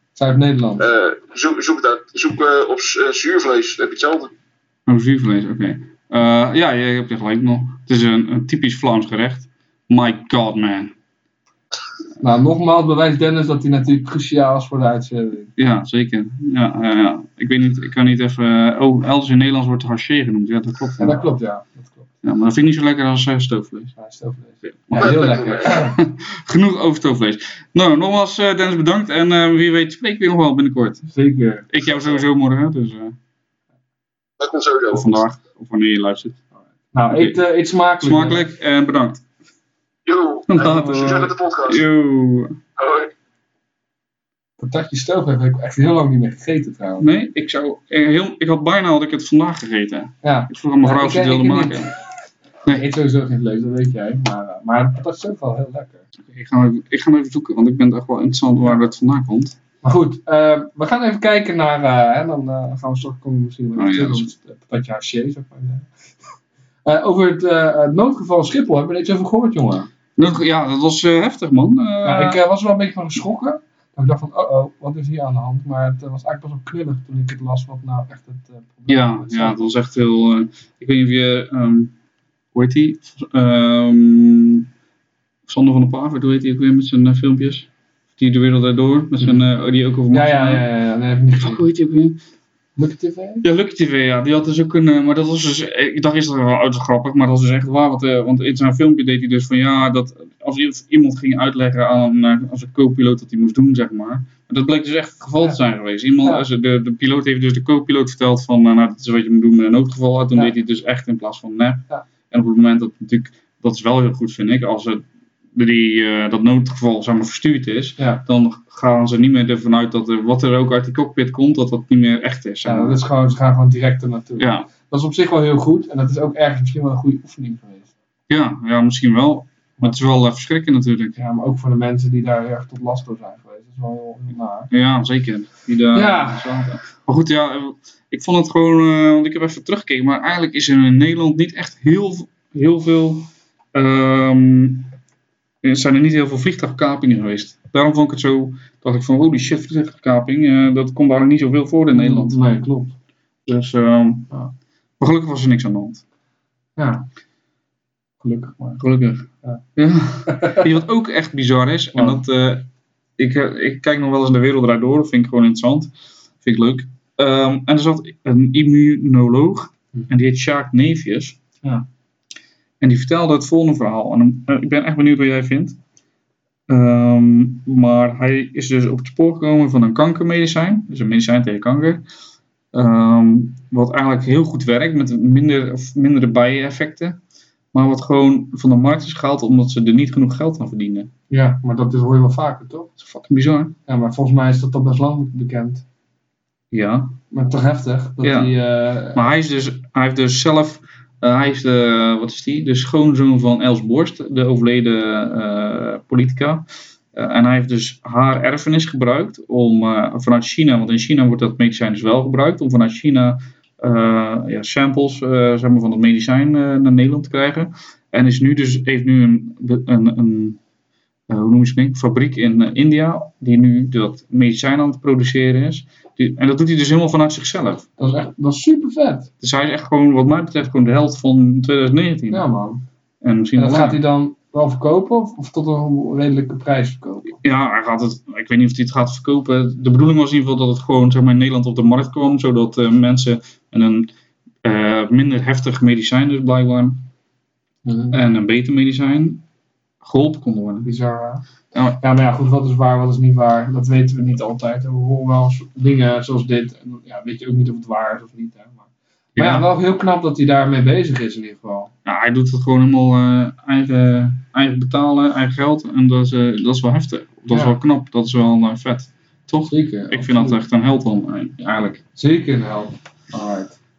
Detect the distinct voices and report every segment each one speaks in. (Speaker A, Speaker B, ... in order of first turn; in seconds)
Speaker A: 0.2-0.9, 12.2-15.5, 21.0-22.1, 24.0-26.0, 31.1-31.7, 36.9-38.5, 44.6-47.1, 50.2-52.0, 52.7-56.0, 59.8-65.9, 66.8-69.9, 72.0-79.6, 90.1-91.7, 92.8-93.4, 122.7-127.9, 131.2-134.7, 135.9-136.7, 151.9-152.9, 156.8-157.1, 158.2-158.7, 160.3-160.7, 161.9-162.2, 191.3-192.9, 193.9-195.8, 197.3-199.3, 228.0-229.3, 232.3-232.8, 233.6-237.4, 247.8-248.2, 250.8-251.4, 252.0-258.8, 259.4-261.9, 267.5-267.8, 269.7-270.6, 272.2-273.8
Speaker B: 0.8-4.3, 25.0-25.8, 34.4-35.2, 40.1-41.8, 42.8-43.1
Speaker C: 4.9-10.9, 15.6-21.3, 22.2-23.9, 24.9-31.1, 31.7-33.2, 34.9-36.4, 37.1-37.4, 38.0-39.2, 40.5-42.6, 47.0-51.9, 56.3-59.6, 63.8-64.3, 70.2-72.4, 78.9-81.9, 82.5-84.7, 85.5-90.7, 91.4-92.2, 93.4-123.0, 124.4-124.7, 128.3-131.2, 134.7-144.9, 145.6-152.5, 153.4-154.4, 155.0-156.0, 158.6-165.9, 166.4-171.4, 172.8-175.8, 176.7-182.1, 182.7-187.2, 187.7-191.1, 193.0-193.8, 196.7-197.2, 198.2-198.6, 199.1-220.6, 221.3-227.9, 229.4-232.4, 233.2-234.0, 237.4-244.1, 244.6-247.1, 248.1-249.4, 250.0-250.9, 251.7-252.0, 259.4-259.7, 262.1-272.0